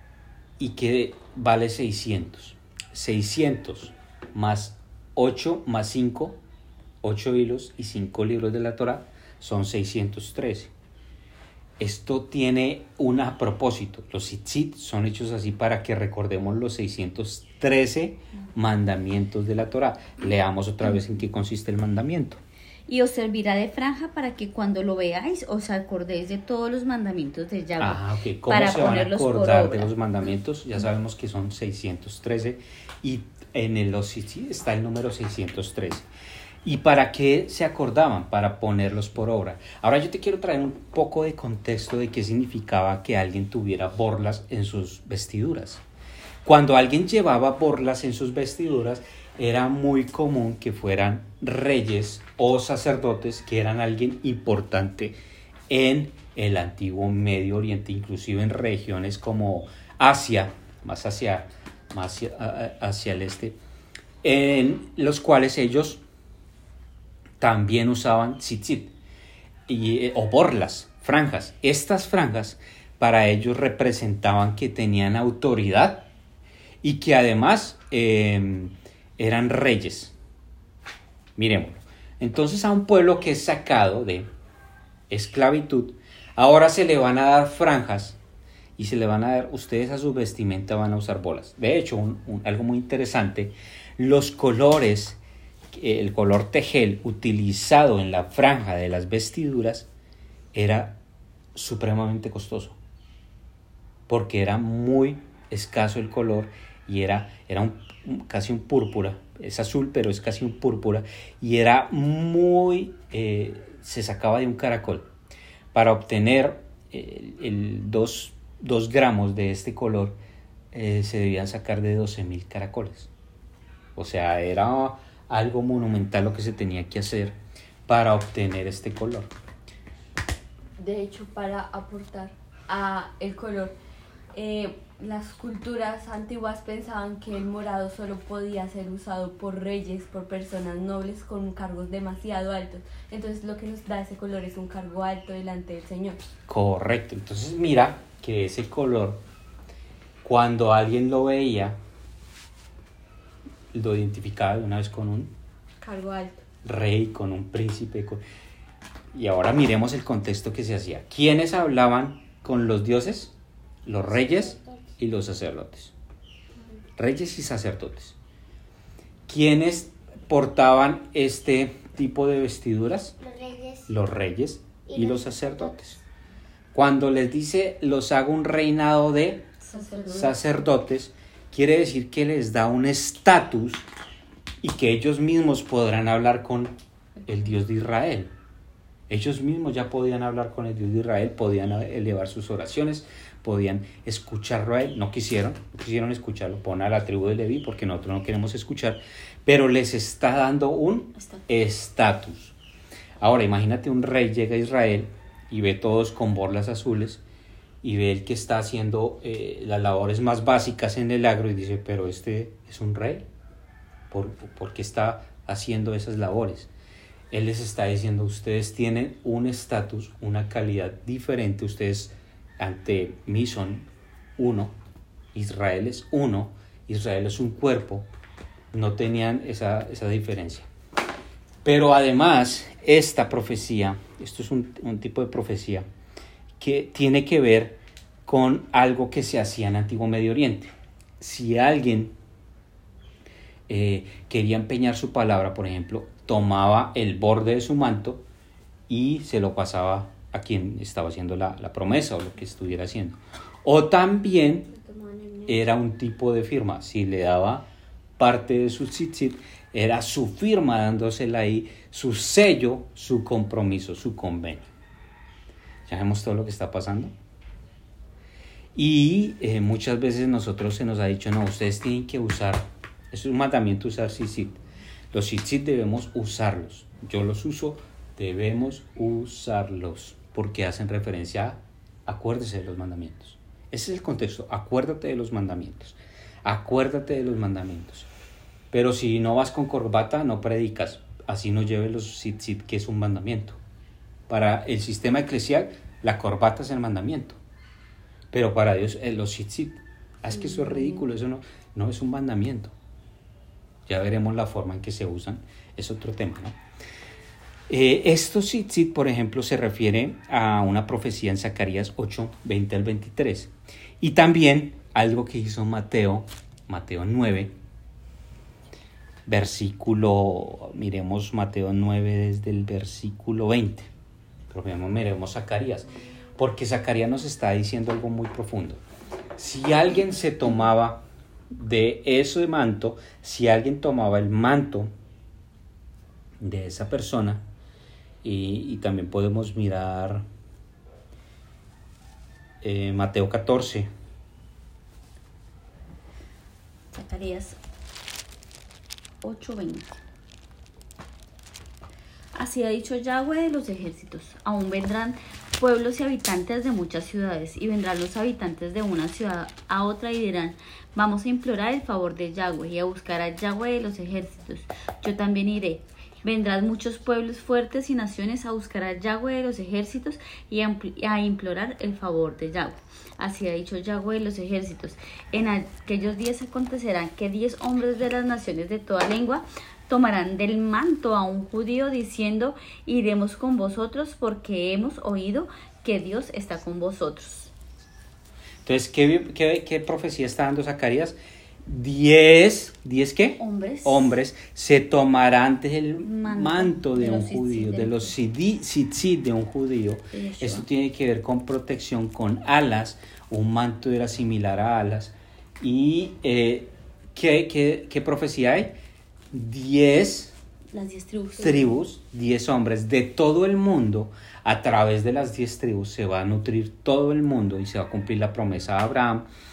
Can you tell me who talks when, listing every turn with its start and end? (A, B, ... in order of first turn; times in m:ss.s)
0:00.6-0:06.4 A
0:07.0-0:10.7 A
0:11.8-0:22.4 A
0:22.9-0:29.9 B
0:27.8-0:36.1 A
0:36.6-0:45.8 A
0:46.4-0:55.2 A
0:55.7-1:03.6 A
1:04.2-1:06.0 A
1:07.4-1:08.9 A
1:09.7-1:16.1 A
1:16.8-1:20.1 A
1:21.4-1:24.3 A
1:25.1-1:28.2 A
1:28.8-1:35.2 A
1:35.7-1:39.9 A
1:40.5-1:41.0 A
1:41.5-1:42.8 A
1:44.1-1:55.1 A
1:55.7-2:00.2 A
2:00.7-2:03.1 A
2:04.0-2:09.3 A
2:10.8-2:13.8 C
2:14.3-2:26.2 C
2:26.5-2:29.2 A
2:30.2-2:31.8 A
2:33.7-2:35.3 A
2:35.8-2:36.4 C
2:36.6-2:38.2 A
2:39.1-2:43.3 A
2:43.8-2:45.9 A
2:44.1-2:44.8 D
2:47.0-2:48.2 A
2:49.3-2:53.1 A
2:53.2-2:53.9 D
2:53.9-2:56.0 A
2:54.8-2:55.8 D
2:56.7-2:59.5 A
2:59.6-3:00.4 B
2:59.8-3:00.1 C
3:00.1-3:03.9 A
3:04.6-3:08.3 A
3:09.1-3:22.5 A
3:21.2-3:21.4 B
3:23.2-3:27.2 A
3:27.8-3:33.3 A
3:34.1-3:36.7 A
3:37.3-3:44.7 A
3:45.3-3:48.1 A
3:48.7-3:50.7 A
3:51.6-3:55.8 A
3:56.6-4:02.1 A
4:03.7-4:08.2 A
4:08.9-4:14.7 A
4:14.7-4:15.6 D
4:15.4-4:24.7 A
4:25.8-4:27.1 A
4:28.7-4:34.6 A
4:35.1-4:48.1 A
4:48.7-4:53.6 A
4:54.3-4:57.4 A
4:58.3-5:02.7 A
5:03.9-5:06.6 A
5:07.7-5:17.5 A
5:19.3-5:23.9 A
5:24.5-5:28.8 A
5:29.4-5:34.9 A
5:36.4-5:37.4 A
5:38.2-5:40.2 A
5:42.6-5:43.9 A
5:46.9-5:47.6 B
5:49.2-5:50.0 B
5:52.3-6:27.5 B
6:28.6-6:48.7 A
6:33.4-6:34.1 B
6:36.0-6:38.1 B
6:40.1-6:40.7 B
6:49.3-6:50.3 A
6:50.7-6:51.8 B
6:51.4-6:59.3 A